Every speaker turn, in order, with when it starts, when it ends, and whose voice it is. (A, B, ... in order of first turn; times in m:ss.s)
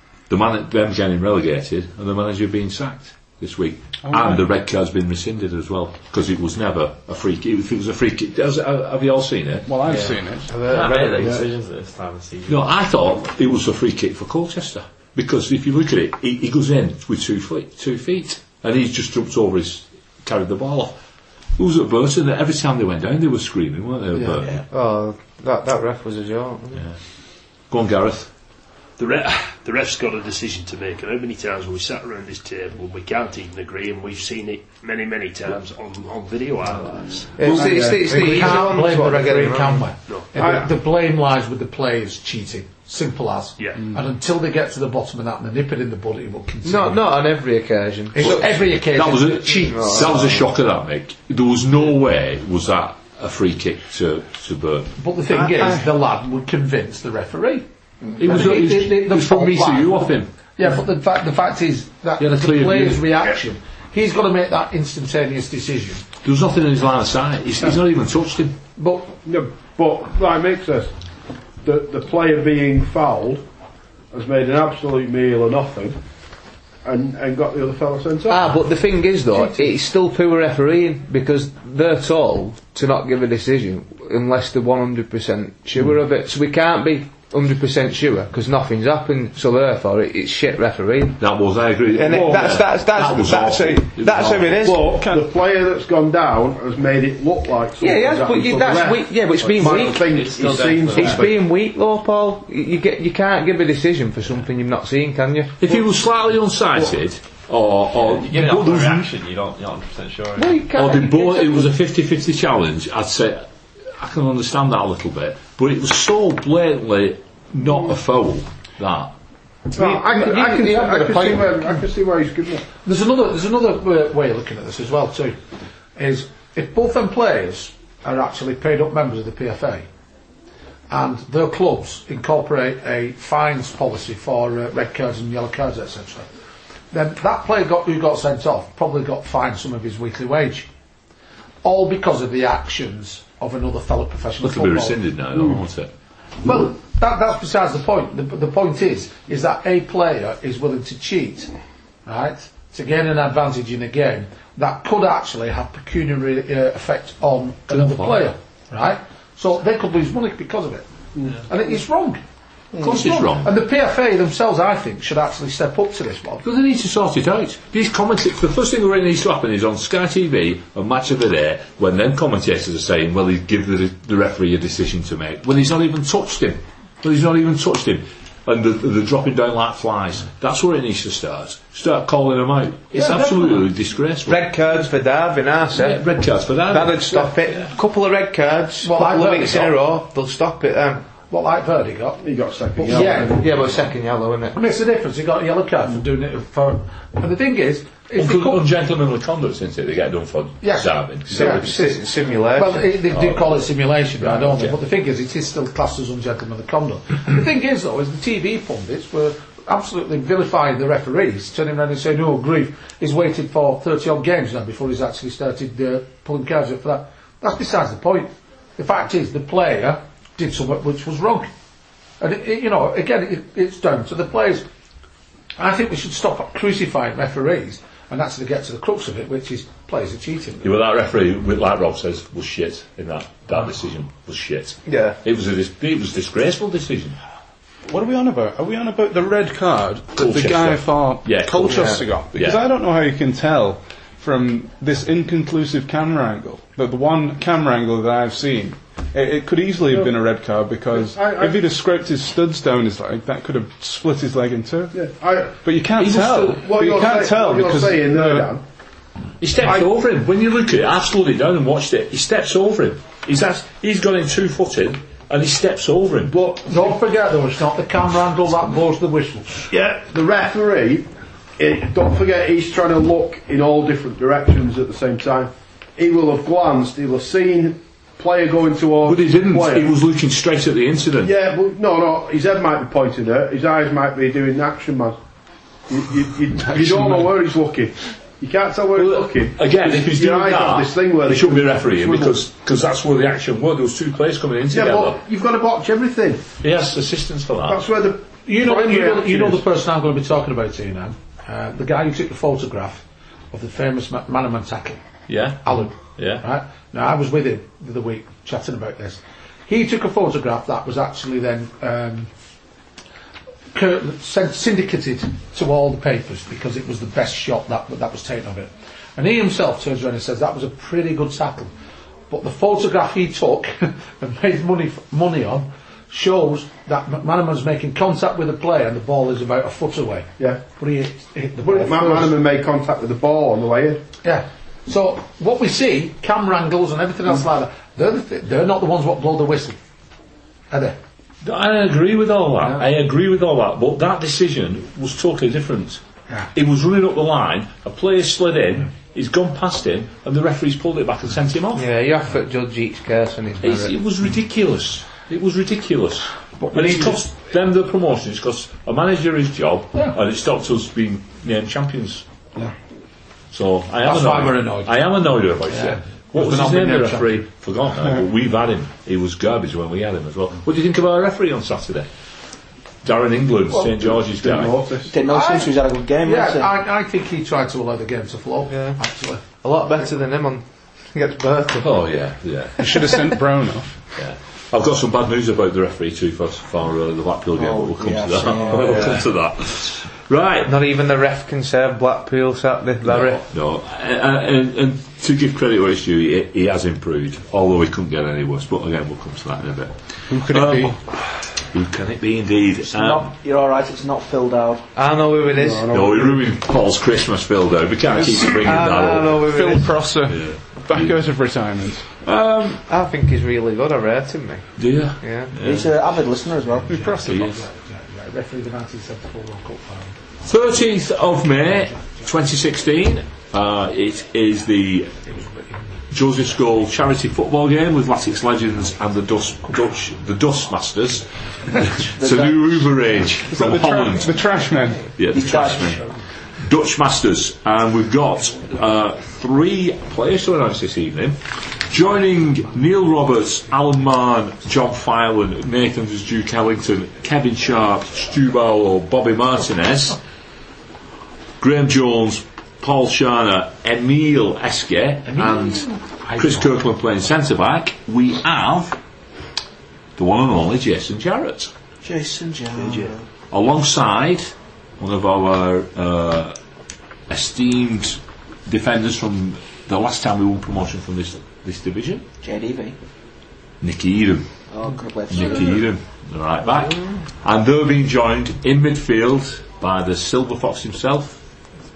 0:00.3-0:09.7 A
0:04.0-0:04.4 B
0:09.7-0:10.7 B
0:09.8-0:12.7 C
0:10.6-0:11.3 D
0:11.2-0:11.5 E
0:12.5-0:21.0 A
0:21.6-0:24.6 A
0:24.1-0:26.8 D
0:26.7-0:27.0 A
0:27.7-0:28.3 A
0:29.0-0:37.4 F
0:37.4-0:39.9 D
0:37.4-0:38.6 E
0:37.5-0:47.0 G
0:40.4-0:40.7 E
0:43.6-0:43.9 F
0:46.6-0:48.6 D
0:48.1-0:50.2 G
0:48.2-0:55.0 A
0:49.5-0:50.5 D
0:55.0-0:57.6 G
0:55.5-0:55.8 B
0:58.2-1:06.0 G
0:58.2-1:00.3 A
1:02.2-1:03.1 A
1:06.2-1:08.6 A
1:08.8-1:09.1 G
1:09.2-1:10.9 E
1:11.6-1:13.4 E
1:14.1-1:16.0 E
1:16.8-1:18.6 E
1:18.3-1:31.2 D
1:31.2-1:34.7 A
1:31.9-1:34.9 D
1:32.1-1:32.6 E
1:34.6-1:41.4 E
1:34.8-1:35.2 B
1:37.8-1:40.1 D
1:39.6-1:41.3 C
1:40.9-1:45.6 D
1:45.6-1:49.1 A
1:48.0-1:50.6 C
1:50.4-1:51.7 D
1:50.7-1:59.1 A
1:59.7-2:02.7 E
1:59.8-2:01.8 G
2:02.8-2:05.4 G
2:06.0-2:09.9 G
2:10.9-2:16.3 G
2:16.9-2:20.7 G
2:21.6-2:25.0 G
2:24.4-2:25.9 A
2:26.4-2:31.5 G
2:32.1-2:42.2 G
2:37.7-2:38.2 A
2:42.8-2:43.5 A
2:42.8-2:46.4 G
2:46.4-3:04.5 A
3:03.0-3:03.4 G
3:04.2-3:06.1 D
3:05.7-3:07.7 A
3:06.6-3:11.1 D
3:08.8-3:09.8 G
3:11.3-3:12.2 G
3:12.2-3:13.5 E
3:12.8-3:13.4 G
3:12.9-3:14.5 D
3:14.5-3:18.6 G
3:18.2-3:22.0 A
3:20.6-3:22.0 G
3:21.4-3:22.9 D
3:22.5-3:41.5 G
3:23.1-3:23.4 A
3:24.3-3:24.7 A
3:42.2-3:44.6 G
3:45.6-3:50.7 G
3:50.6-3:57.2 A
3:54.9-3:55.2 D
3:57.9-4:15.0 B
4:00.2-4:02.6 A
4:01.7-4:02.1 D
4:09.9-4:10.2 E
4:10.9-4:11.6 E
4:14.9-4:18.6 E
4:15.6-4:18.5 B
4:16.0-4:16.6 A
4:19.4-4:26.4 A
4:26.3-4:26.7 E
4:26.4-4:29.7 G
4:29.7-4:39.9 E
4:39.0-4:41.3 A
4:41.2-4:45.2 E
4:45.9-4:52.4 E
4:46.7-4:47.3 B
4:48.9-4:55.2 A
4:54.7-4:56.4 E
4:56.6-4:57.8 A
4:57.7-4:59.6 E
4:58.5-5:05.0 G
5:05.3-5:06.4 A
5:05.6-5:12.3 G
5:13.7-5:21.7 G
5:22.3-5:32.4 G
5:31.6-5:34.0 E
5:34.2-5:39.8 G
5:40.7-5:41.0 G
5:41.4-5:46.0 A
5:46.5-5:51.9 A
5:51.7-5:54.0 D
5:53.6-6:02.2 A
5:56.6-5:57.2 G
6:03.5-6:12.1 A
6:04.0-6:05.0 G
6:05.7-6:07.4 G
6:13.0-6:14.8 A
6:13.7-6:15.2 E
6:15.1-6:16.7 H
6:15.2-6:19.4 G
6:18.7-6:19.0 D
6:19.6-6:22.0 D
6:21.8-6:22.8 A
6:22.8-6:24.0 B
6:24.2-6:30.7 A
6:27.6-6:29.2 H
6:28.5-6:29.1 D
6:30.6-6:33.4 D
6:33.0-6:43.3 A
6:40.3-6:41.0 B
6:42.8-6:44.8 H
6:45.0-6:45.9 D
6:45.5-6:46.5 E
6:45.9-6:49.5 A
6:48.3-6:50.0 D
6:49.4-6:52.1 B
6:50.3-6:51.2 A
6:52.2-6:52.8 A
6:52.9-6:54.7 D
6:54.8-6:55.9 A
6:55.2-6:55.6 D
6:55.6-6:57.0 H
6:56.8-7:00.2 G
6:56.9-6:57.4 B
6:57.2-6:57.6 A
7:00.4-7:05.2 A
7:01.6-7:02.3 G
7:05.2-7:06.0 G
7:06.1-7:14.3 A
7:11.6-7:12.1 G
7:12.2-7:12.9 H
7:13.5-7:15.2 B
7:15.2-7:30.2 A
7:15.3-7:16.0 H
7:15.4-7:15.9 G
7:31.6-7:39.0 A
7:35.3-7:36.7 G
7:40.2-7:41.7 A
7:42.0-7:43.3 H
7:42.8-7:43.1 F
7:43.5-7:46.6 A
7:47.3-7:52.2 A
7:52.4-7:53.0 H
7:53.8-7:54.5 A
7:54.7-7:55.8 H
7:55.3-8:01.4 A